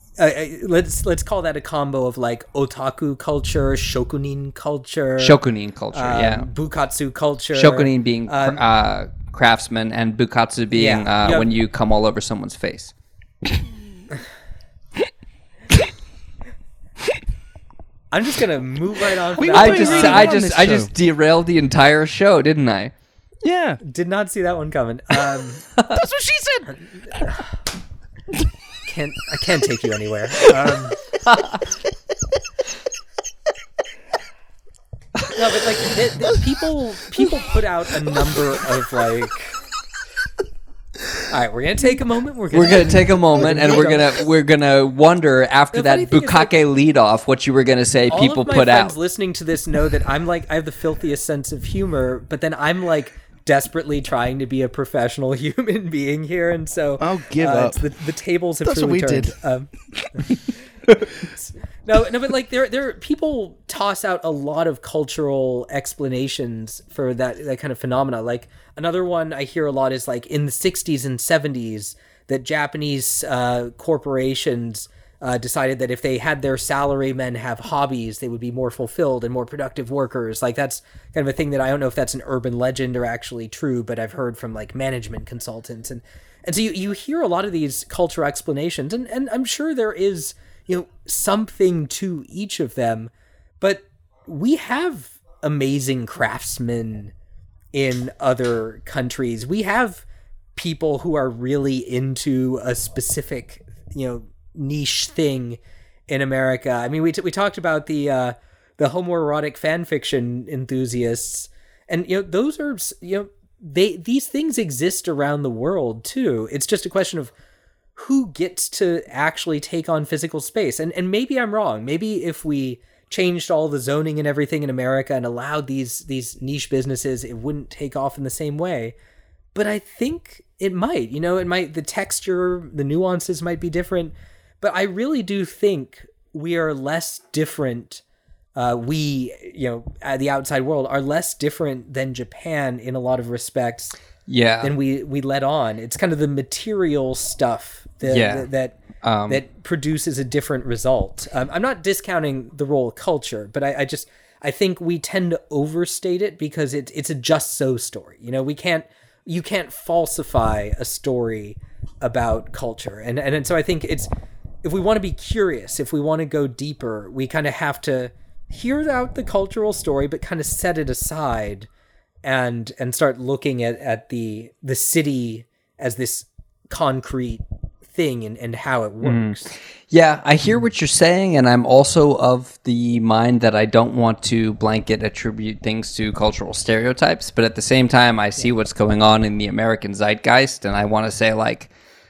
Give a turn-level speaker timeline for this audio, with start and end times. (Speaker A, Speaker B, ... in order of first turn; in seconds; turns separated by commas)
Speaker A: 0.2-5.4, Speaker B: 5.2-6.5, Speaker A: 5.9-8.6, Speaker B: 7.5-12.9, Speaker A: 10.7-11.5, Speaker A: 18.1-20.4, Speaker C: 19.4-20.9, Speaker B: 19.5-22.9, Speaker C: 23.4-23.8, Speaker A: 23.8-25.7, Speaker C: 25.9-27.4, Speaker A: 27.1-27.4, Speaker A: 28.8-31.0, Speaker B: 31.2-31.6, Speaker A: 35.3-39.6, Speaker A: 41.3-44.1, Speaker B: 42.5-49.0, Speaker A: 45.7-46.6, Speaker A: 48.1-60.3, Speaker C: 57.0-57.9, Speaker C: 58.6-60.5, Speaker A: 61.2-97.1, Speaker A: 97.7-100.0, Speaker A: 100.5-117.3, Speaker A: 118.0-128.9, Speaker A: 129.5-138.0, Speaker A: 138.5-143.9, Speaker B: 144.3-144.7, Speaker A: 144.6-164.1, Speaker B: 148.0-148.5, Speaker B: 149.0-149.4, Speaker A: 164.6-171.7, Speaker A: 172.2-179.5, Speaker B: 179.0-191.7